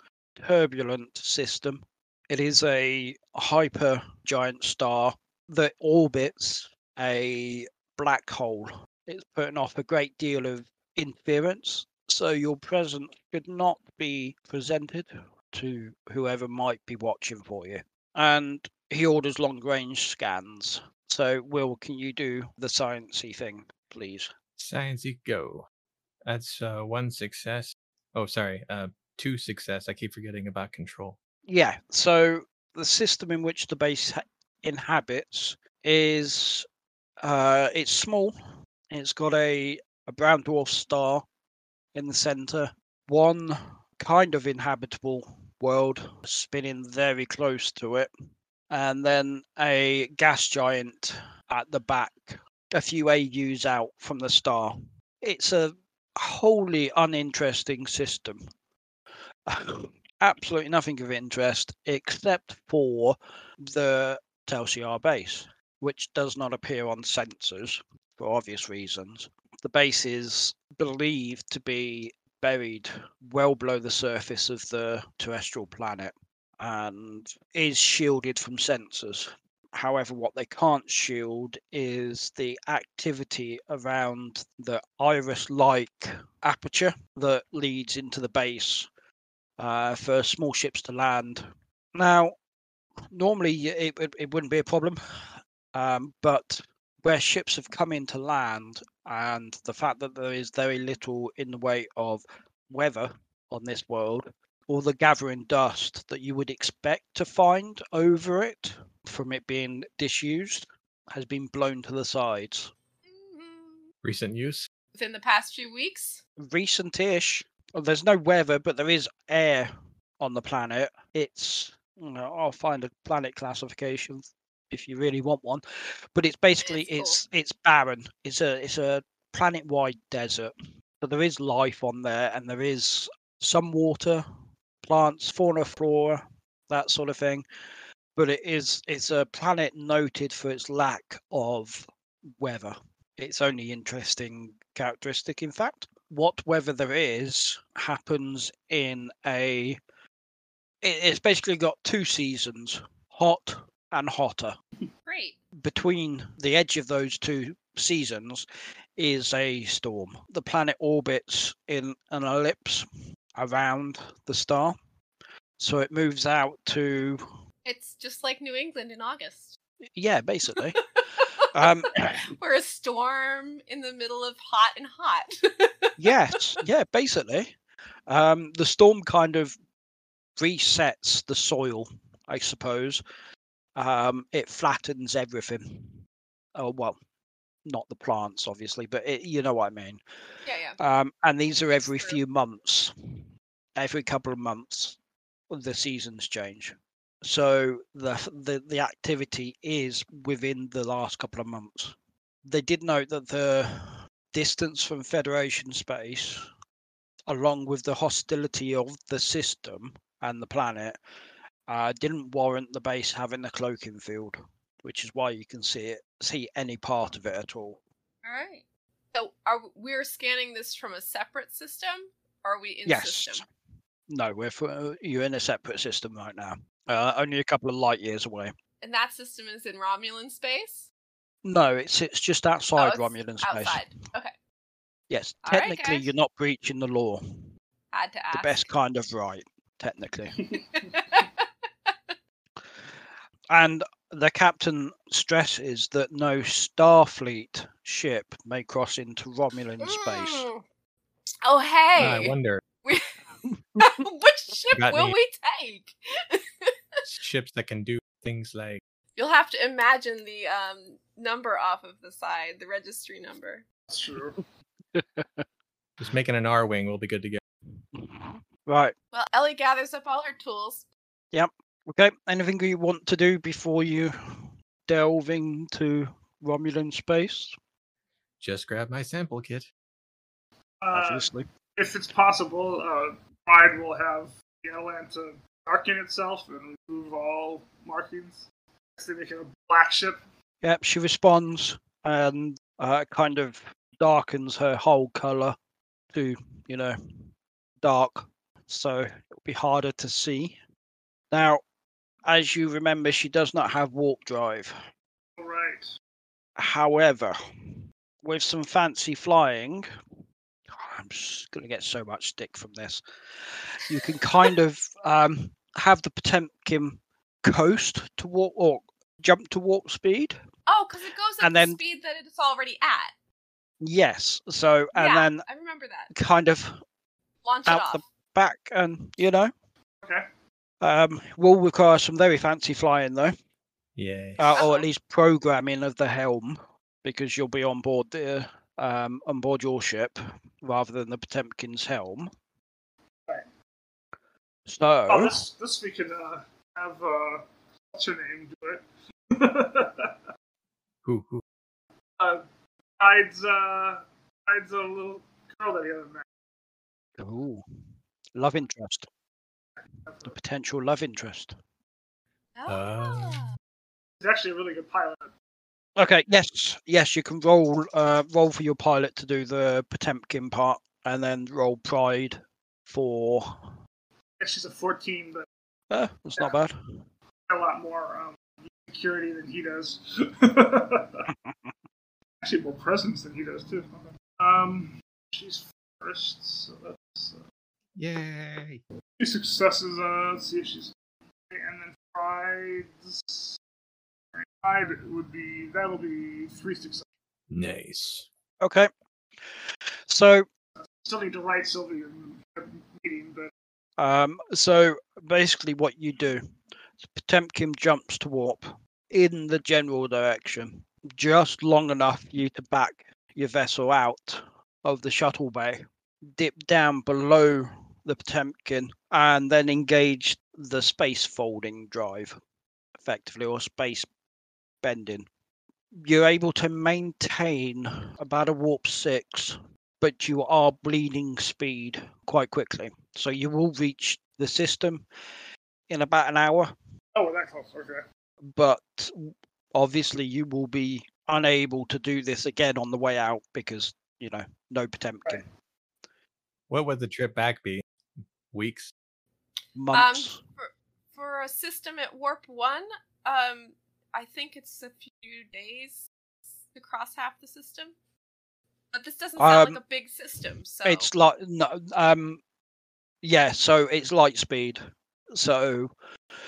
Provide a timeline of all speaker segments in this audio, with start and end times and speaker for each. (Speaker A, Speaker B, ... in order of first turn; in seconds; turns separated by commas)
Speaker A: 0.4-24.3, Speaker B: 24.6-25.6, Speaker B: 26.2-31.1, Speaker A: 31.5-36.6, Speaker A: 37.2-38.3, Speaker A: 38.9-41.2, Speaker A: 41.9-48.1, Speaker A: 48.7-58.4, Speaker A: 59.5-88.9, Speaker A: 89.6-92.3, Speaker A: 93.1-112.7, Speaker C: 113.0-113.9, Speaker B: 114.0-114.7, Speaker C: 114.9-116.2, Speaker A: 116.4-134.2, Speaker C: 126.6-127.2, Speaker A: 134.8-137.4, Speaker A: 138.2-149.8, Speaker A: 150.8-154.6, Speaker C: 155.1-155.4, Speaker A: 155.6-164.8, Speaker A: 165.6-167.2, Speaker C: 167.6-169.6, Speaker A: 169.9-170.8, Speaker C: 170.6-171.3, Speaker A: 171.5-172.2, Speaker C: 172.0-176.1, Speaker A: 176.0-177.5, Speaker A: 178.1-179.6, Speaker A: 180.4-183.0, Speaker A: 183.8-186.0, Speaker A: 186.5-187.0, Speaker A: 187.7-190.0, Speaker C: 190.4-190.8, Speaker A: 190.8-192.9, Speaker A: 193.8-195.0, Speaker A: 195.5-206.5, Speaker A: 207.3-211.0, Speaker A: 211.7-217.8, Speaker C: 218.2-223.4, Speaker A: 222.8-223.4, Speaker A: 224.1-228.5, Speaker C: 228.8-230.9, Speaker A: 231.4-233.8, Speaker C: 232.8-234.3, Speaker A: 235.1-237.4, Speaker C: 235.4-236.1, Speaker C: 237.9-238.7, Speaker A: 238.3-240.4, Speaker C: 240.5-242.1, Speaker A: 242.6-250.4, Speaker C: 249.8-250.6, Speaker C: 251.4-253.2, Speaker B: 252.0-252.6, Speaker A: 253.4-253.9, Speaker C: 253.8-257.0, Speaker B: 254.7-255.2, Speaker B: 257.1-258.8, Speaker C: 259.1-263.6, Speaker D: 263.9-264.4, Speaker A: 264.9-265.4, Speaker B: 266.0-267.4, Speaker A: 267.9-268.9, Speaker C: 269.1-270.9, Speaker A: 271.3-277.5, Speaker B: 278.4-279.7, Speaker D: 280.8-288.4, Speaker A: 280.9-281.4, Speaker D: 289.0-290.2, Speaker A: 290.6-295.6, Speaker A: 296.1-296.9, Speaker A: 297.8-300.6, Speaker A: 301.3-301.6, Speaker A: 302.2-304.8, Speaker D: 305.4-305.9, Speaker A: 306.6-309.9, Speaker A: 310.7-320.4, Speaker C: 320.7-323.1, Speaker A: 321.4-321.8, Speaker A: 323.8-325.4, Speaker C: 324.9-326.1, Speaker A: 326.1-326.8, Speaker C: 327.4-328.0, Speaker A: 327.6-329.5, Speaker A: 330.8-333.3, Speaker B: 333.9-334.5, Speaker A: 334.4-342.3, Speaker C: 334.5-334.9, Speaker A: 344.7-345.4, Speaker D: 345.1-350.1, Speaker B: 351.0-351.4, Speaker D: 352.2-352.4, Speaker D: 353.0-356.2, Speaker A: 357.2-357.6, Speaker A: 358.3-359.1, Speaker D: 359.8-360.3, Speaker A: 360.2-361.5, Speaker C: 362.6-363.5, Speaker B: 362.7-363.4, Speaker D: 364.2-365.3, Speaker A: 365.9-373.8, Speaker D: 374.4-375.4, Speaker A: 375.9-376.7, Speaker D: 377.5-381.2, Speaker A: 381.3-381.7, Speaker D: 382.4-387.4, Speaker B: 387.9-388.8, Speaker D: 389.2-390.9, Speaker D: 391.5-393.6, Speaker D: 394.3-397.0, Speaker B: 397.5-398.3, Speaker A: 398.6-398.9, Speaker A: 399.4-400.4, Speaker D: 400.9-403.5, Speaker A: 404.0-406.4, Speaker A: 407.0-422.4, Speaker A: 423.0-424.1, Speaker A: 424.8-425.3, Speaker A: 426.0-435.1, Speaker A: 435.9-436.7, Speaker D: 437.1-438.0, Speaker A: 438.4-445.4, Speaker B: 446.7-447.8, Speaker B: 448.5-448.9, Speaker A: 449.8-450.4, Speaker C: 449.9-456.1, Speaker C: 456.7-457.9, Speaker C: 458.9-461.1, Speaker A: 459.4-459.8, Speaker A: 460.8-462.4, Speaker A: 463.2-464.8, Speaker A: 465.3-465.9